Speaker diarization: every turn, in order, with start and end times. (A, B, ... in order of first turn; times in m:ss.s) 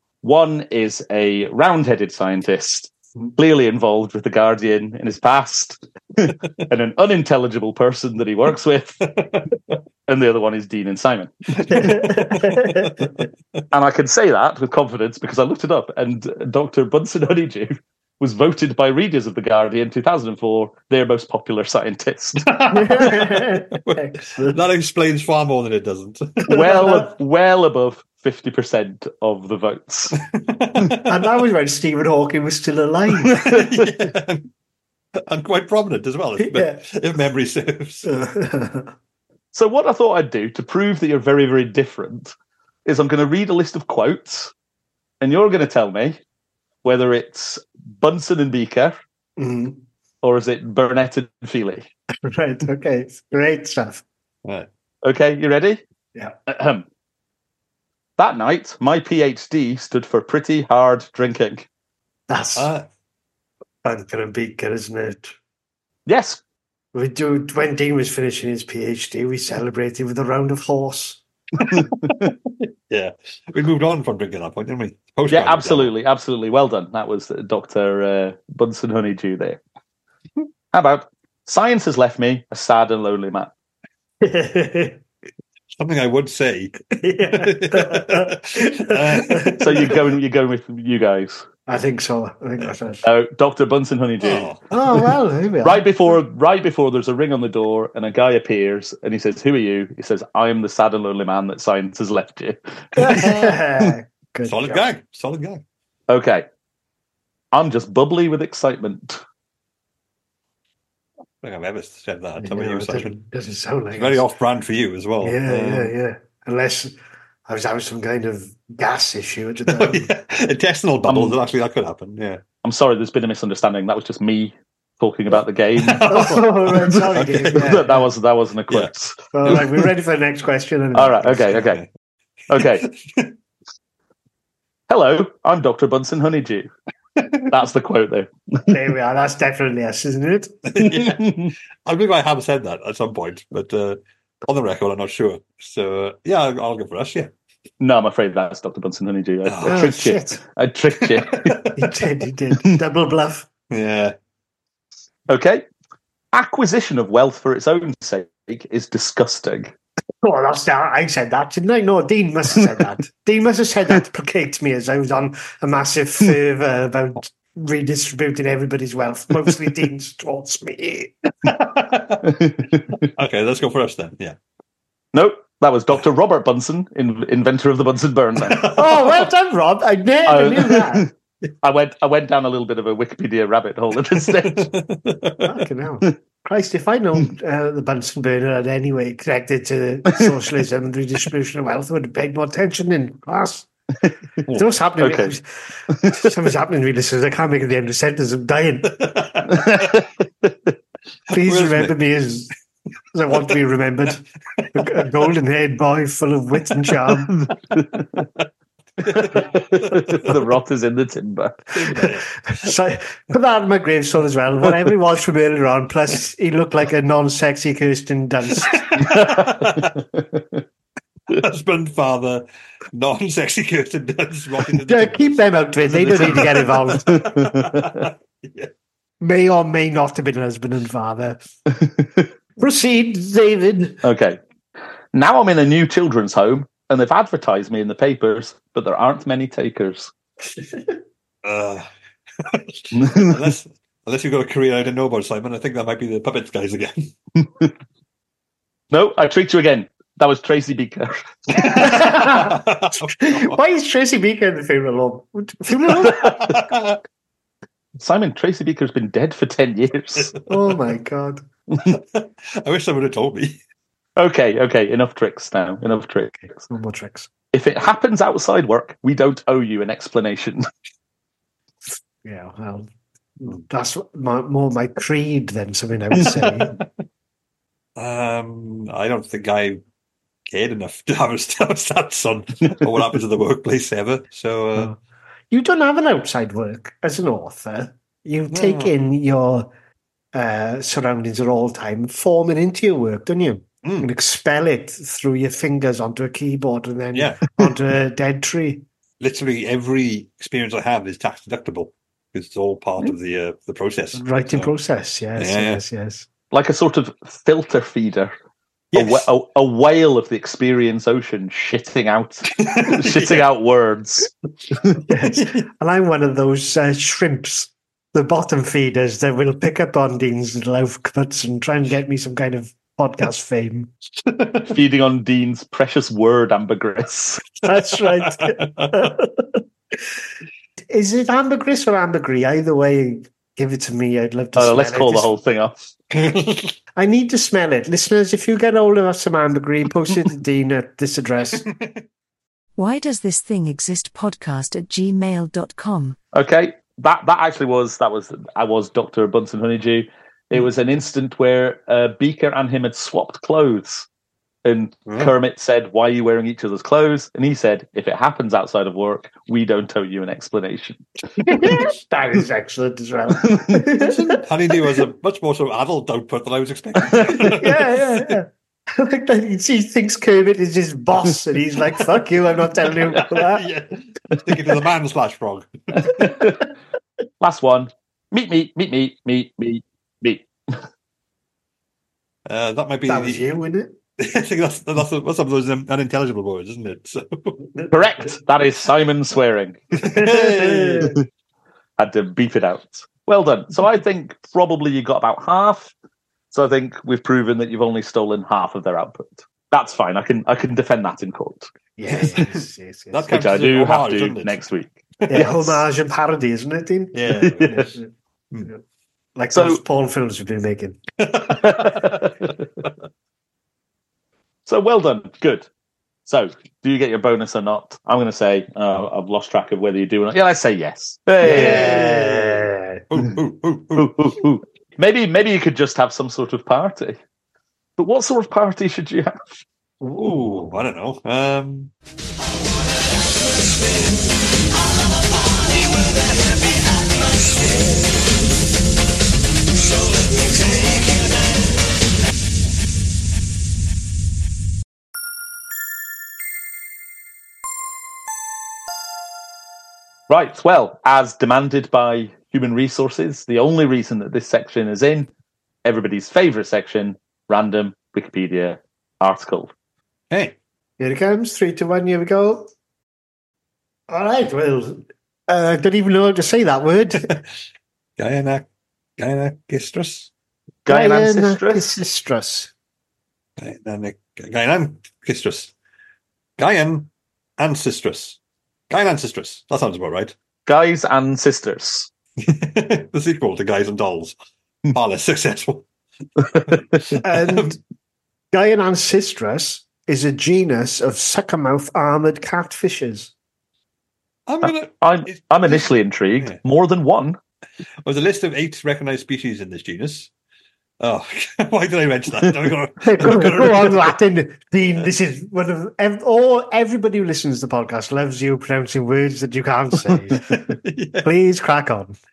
0:00.2-0:09.1 A
0:09.0-0:09.7 B
0:10.1-0:12.3 A
0:11.6-0:13.1 B
0:11.7-0:12.9 C
0:13.7-0:22.6 A
0:22.4-0:26.5 B
0:22.7-0:24.6 C
0:26.5-0:27.1 C
0:26.5-0:30.2 A
0:30.1-0:31.1 B
0:31.0-0:33.4 C
0:33.3-0:34.5 B
0:35.3-0:38.1 B
0:36.4-0:36.8 C
0:38.0-0:38.9 C
0:39.5-0:44.5 A
0:45.2-0:46.2 A
0:46.8-0:49.0 A
0:49.4-0:49.8 C
0:50.2-0:51.9 A
0:52.2-0:54.0 C
0:55.0-0:55.8 A
0:56.5-0:56.9 A
0:58.2-1:01.7 A
1:02.3-1:02.7 C
1:02.6-1:02.8 B
1:03.8-1:05.3 C
1:06.1-1:06.4 A
1:06.9-1:11.2 C
1:11.6-1:12.4 B
1:12.9-1:15.9 B
1:15.3-1:19.6 A
1:20.7-1:23.5 A
1:24.2-1:25.0 C
1:25.8-1:30.0 B
1:27.0-1:29.9 C
1:29.6-1:31.5 A
1:31.7-1:33.0 C
1:33.0-1:34.5 A
1:34.2-1:34.7 B
1:34.7-1:35.9 C
1:35.6-1:43.4 A
1:43.0-1:44.8 C
1:43.0-1:43.5 B
1:44.5-1:45.6 B
1:46.1-1:46.5 A
1:47.5-1:49.2 A
1:51.4-1:53.2 B
1:52.4-1:54.2 C
1:54.0-1:55.9 B
1:55.2-2:00.1 C
1:59.7-2:02.4 B
2:01.1-2:01.4 A
2:02.6-2:09.6 A
2:05.8-2:07.7 B
2:06.1-2:08.1 C
2:09.3-2:11.5 C
2:10.9-2:11.8 A
2:11.5-2:11.8 B
2:12.5-2:12.9 A
2:12.5-2:13.3 B
2:14.9-2:16.7 A
2:17.5-2:18.6 A
2:18.7-2:20.6 C
2:20.6-2:27.3 B
2:20.8-2:21.5 A
2:27.8-2:31.6 A
2:29.4-2:29.9 B
2:29.6-2:30.4 C
2:31.0-2:31.7 B
2:31.7-2:33.5 C
2:33.7-2:34.2 B
2:35.3-2:35.6 A
2:36.3-2:39.7 A
2:40.2-2:51.1 C
2:51.4-2:52.3 B
2:53.0-2:54.4 B
2:55.1-2:58.8 A
2:58.5-2:58.9 B
2:58.7-3:01.1 C
3:00.3-3:01.1 A
3:01.6-3:04.7 A
3:04.2-3:05.5 B
3:05.4-3:13.7 C
3:14.5-3:19.5 C
3:15.0-3:15.3 A
3:19.0-3:19.6 B
3:19.5-3:20.6 A
3:21.3-3:22.0 B
3:21.3-3:22.5 C
3:23.1-3:27.3 C
3:29.1-3:30.4 B
3:29.3-3:32.0 A
3:31.8-3:32.3 B
3:32.5-3:39.0 C
3:38.6-3:40.0 B
3:39.2-3:40.4 A
3:41.3-3:48.7 B
3:44.9-3:47.3 C
3:47.1-3:48.1 A
3:49.2-3:51.4 C
3:51.8-3:52.2 A
3:52.6-3:54.0 C
3:54.0-3:54.4 A
3:55.1-4:00.1 A
4:01.4-4:01.9 B
4:02.4-4:07.1 B
4:02.9-4:03.4 A
4:08.9-4:12.1 A
4:11.6-4:16.4 C
4:11.6-4:13.6 B
4:15.9-4:17.0 B
4:18.0-4:20.3 A
4:20.5-4:21.4 C
4:21.8-4:23.6 B
4:24.2-4:26.4 A
4:26.6-4:27.3 C
4:27.5-4:30.7 A
4:32.2-4:32.9 C
4:33.7-4:36.7 C
4:38.0-4:39.8 B
4:40.5-4:44.9 B
4:45.5-4:49.7 C
4:48.5-4:48.9 B
4:50.3-4:58.8 C
4:57.2-4:57.8 B
4:59.2-5:04.7 B
5:04.2-5:06.3 C
5:05.4-5:05.8 B
5:06.5-5:08.3 A
5:08.9-5:09.3 B
5:08.9-5:15.0 A
5:12.6-5:13.5 B
5:15.1-5:23.9 C
5:15.4-5:15.6 B
5:24.3-5:24.7 B
5:24.7-5:27.5 A
5:27.6-5:29.6 C
5:28.4-5:29.0 B
5:30.9-5:35.4 C
5:34.5-5:35.9 A
5:36.1-5:36.7 B
5:37.0-5:41.7 C
5:42.8-5:46.2 D
5:46.3-5:54.1 A
5:54.6-6:01.0 A
5:55.1-5:55.3 B
6:01.4-6:04.4 C
6:03.4-6:03.8 A
6:04.0-6:07.9 B
6:07.3-6:13.7 C
6:13.0-6:16.4 B
6:16.3-6:16.5 A
6:17.4-6:20.8 A
6:22.5-6:23.5 B
6:23.1-6:24.0 C
6:24.2-6:27.7 B
6:27.9-6:30.2 A
6:30.0-6:31.1 B
6:30.2-6:31.2 C
6:32.0-6:35.9 A
6:36.5-6:41.7 A
6:42.0-6:43.4 C
6:42.2-6:42.5 B
6:43.1-6:44.6 B
6:43.3-6:45.8 A
6:45.2-6:45.5 B
6:45.3-6:48.1 C
6:47.1-6:48.0 B
6:49.4-6:51.0 C
6:49.5-6:49.8 A
6:51.2-6:52.2 B
6:51.6-6:52.3 A
6:54.7-6:55.7 A
6:56.3-7:02.2 A
7:01.4-7:03.0 C
7:01.4-7:04.2 B
7:04.0-7:07.2 A
7:08.0-7:09.6 A
7:10.0-7:10.4 C
7:10.2-7:11.9 B
7:30.3-7:35.3 A
7:35.8-7:39.7 A
7:40.3-7:40.6 B
7:41.0-7:42.7 C
7:44.1-7:47.3 C
7:48.2-7:48.7 B
7:49.2-7:50.3 B
7:50.9-7:52.0 A
7:50.9-7:52.7 C
7:53.6-7:55.7 B
7:56.6-7:58.4 B
7:58.9-8:00.4 B
8:00.7-8:02.1 A
8:02.4-8:04.4 B
8:04.9-8:05.9 B
8:06.7-8:07.7 B
8:07.2-8:07.8 C
8:08.5-8:13.3 C
8:14.5-8:16.6 B
8:14.6-8:17.4 A
8:18.0-8:20.3 B
8:21.0-8:24.2 B
8:23.0-8:30.6 C
8:30.8-8:31.3 B
8:31.2-8:32.2 C